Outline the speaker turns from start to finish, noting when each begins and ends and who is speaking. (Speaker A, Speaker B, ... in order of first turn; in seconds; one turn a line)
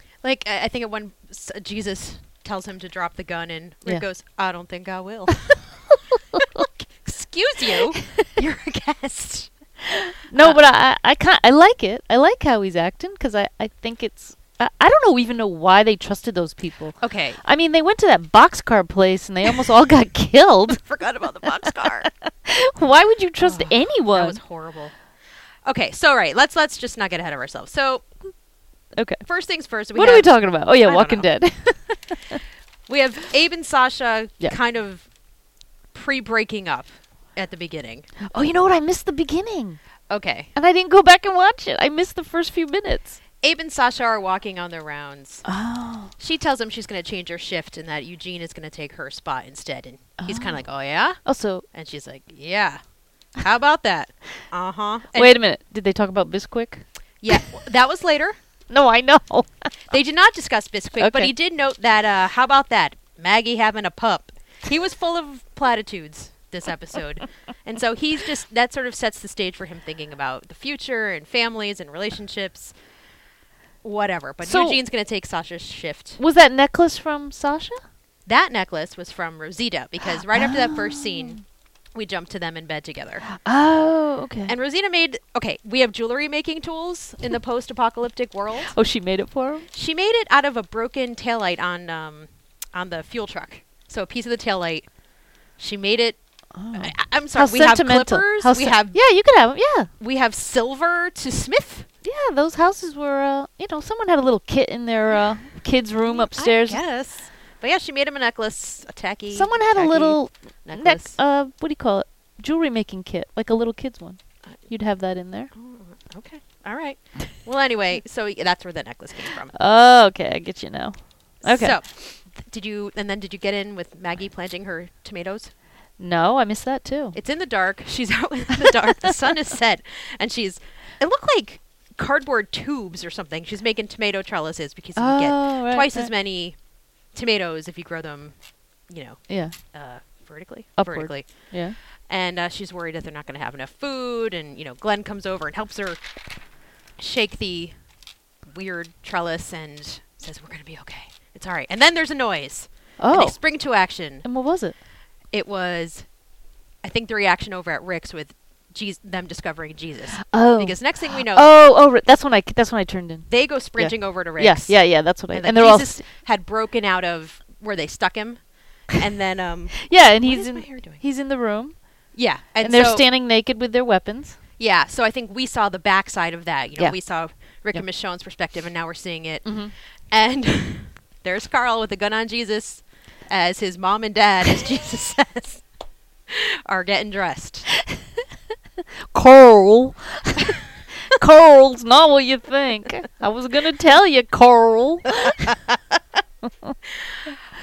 Speaker A: 0.2-9.5
Speaker B: 9.9-20.8
Speaker A: 17.0-17.4
Speaker A: 20.7-22.1
Speaker B: 22.0-24.4
Speaker A: 23.4-24.9
Speaker A: 25.6-28.2
Speaker B: 28.9-29.2
Speaker A: 29.2-31.3
Speaker B: 29.9-32.4
Speaker A: 32.9-35.1
Speaker A: 35.9-38.1
Speaker B: 38.3-39.8
Speaker A: 40.1-40.5
Speaker B: 40.5-43.2
Speaker A: 43.4-45.5
Speaker B: 45.4-46.1
Speaker A: 46.1-52.8
Speaker B: 50.2-50.6
Speaker B: 51.2-51.6
Speaker A: 53.4-55.3
Speaker B: 55.1-57.5
Speaker A: 57.2-58.4
Speaker B: 58.7-59.7
Speaker A: 59.9-72.7
Speaker B: 61.0-61.3
Speaker A: 73.8-76.2
Speaker B: 74.4-74.8
Speaker B: 76.2-77.8
Speaker A: 78.2-81.4
Speaker B: 80.2-81.4
Speaker A: 81.9-83.2
Speaker B: 83.3-84.5
Speaker A: 84.5-88.7
Speaker B: 88.7-89.7
Speaker A: 89.7-94.9
Speaker A: 95.5-96.2
Speaker B: 96.5-99.9
Speaker A: 96.7-99.0
Speaker A: 100.0-101.9
Speaker B: 102.0-106.8
Speaker A: 106.0-111.2
Speaker B: 109.3-115.5
Speaker A: 115.5-119.5
Speaker B: 119.5-121.8
Speaker A: 121.4-125.5
Speaker B: 126.0-127.2
Speaker A: 127.1-146.1
Speaker B: 134.9-136.1
Speaker B: 139.3-139.6
Speaker B: 140.8-141.8
Speaker A: 146.9-147.8
Speaker A: 148.4-154.3
Speaker B: 153.0-153.4
Speaker B: 154.2-154.8
Speaker A: 155.3-156.1
Speaker A: 156.8-161.5
Speaker B: 160.3-166.0
Speaker A: 163.3-171.0
Speaker B: 169.8-171.9
Speaker A: 172.1-173.0
Speaker B: 172.6-174.4
Speaker A: 174.6-185.7
Speaker B: 179.4-179.7
Speaker A: 186.3-187.7
Speaker B: 189.1-190.6
Speaker B: 191.1-195.6
Speaker A: 197.0-197.3